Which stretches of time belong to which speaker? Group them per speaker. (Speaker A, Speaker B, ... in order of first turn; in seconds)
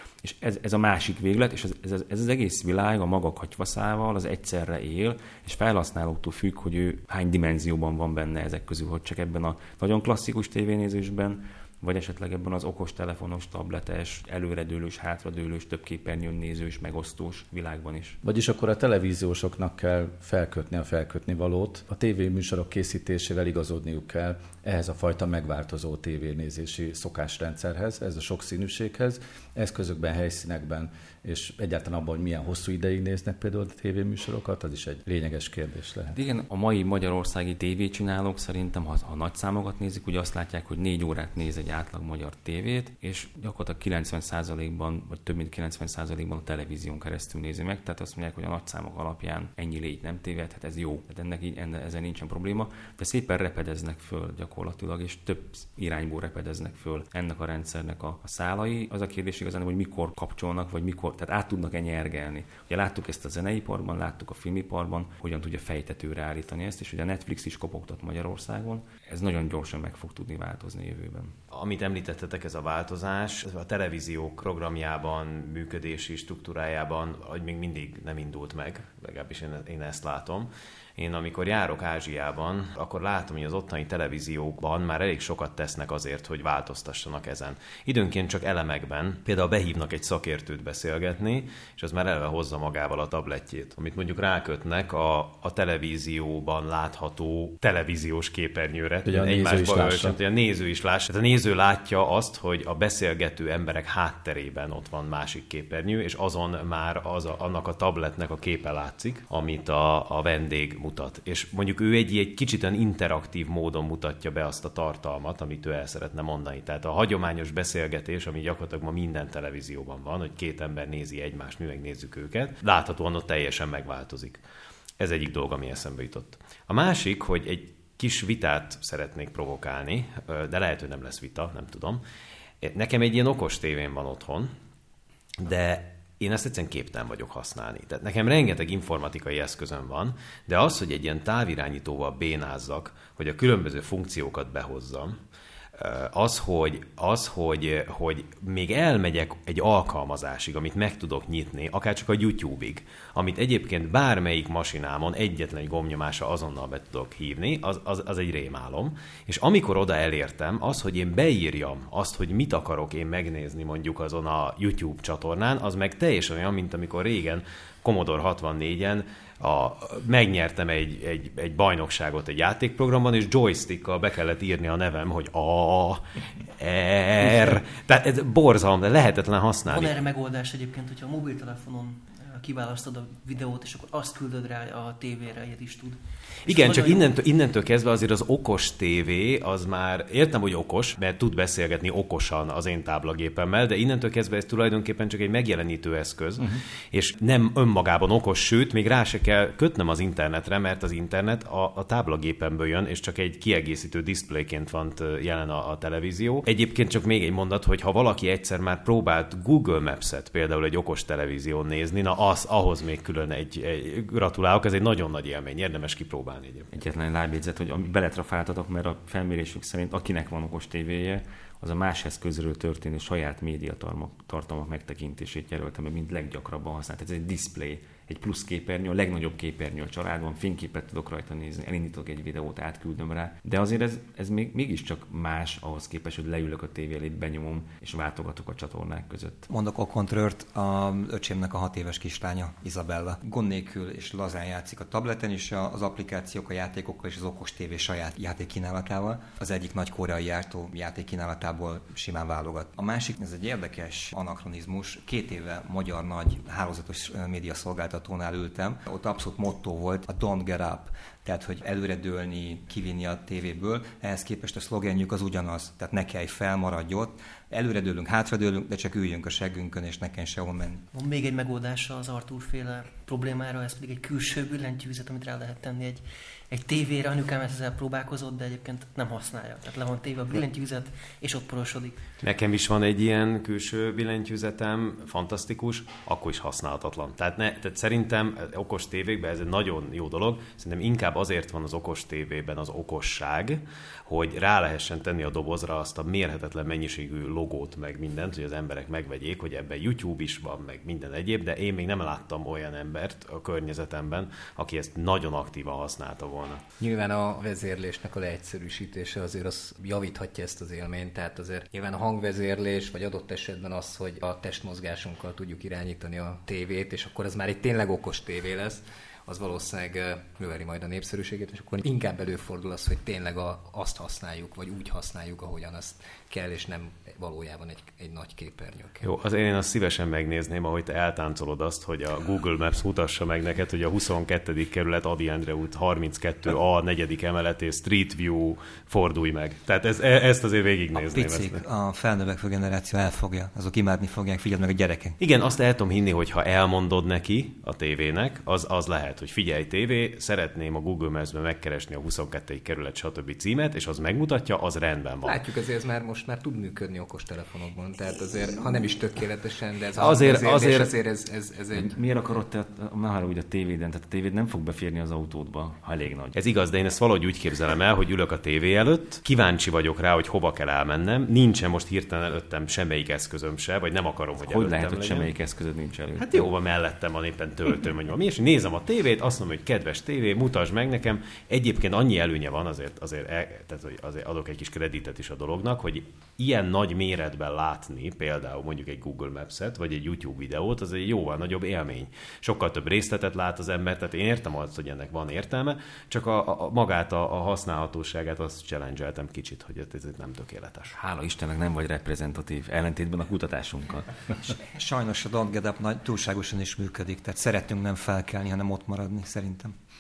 Speaker A: 0.2-18.2, 36.1-71.4, 216.7-239.5, 361.7-366.3, 374.4-376.5, 400.9-404.1
Speaker B: 18.2-36.2, 99.1-100.2
Speaker C: 71.5-124.4, 125.0-132.0, 132.6-134.5, 135.4-145.2, 145.8-176.0, 176.6-180.0, 186.5-216.7, 282.2-306.6, 329.0-341.6, 345.2-355.4, 360.0-360.9, 366.3-375.3, 376.2-400.9
Speaker D: 177.2-177.6, 179.7-187.1, 270.9-282.0
Speaker E: 239.5-270.9, 340.9-345.2, 404.7-409.8
Speaker F: 306.8-329.1, 355.2-362.0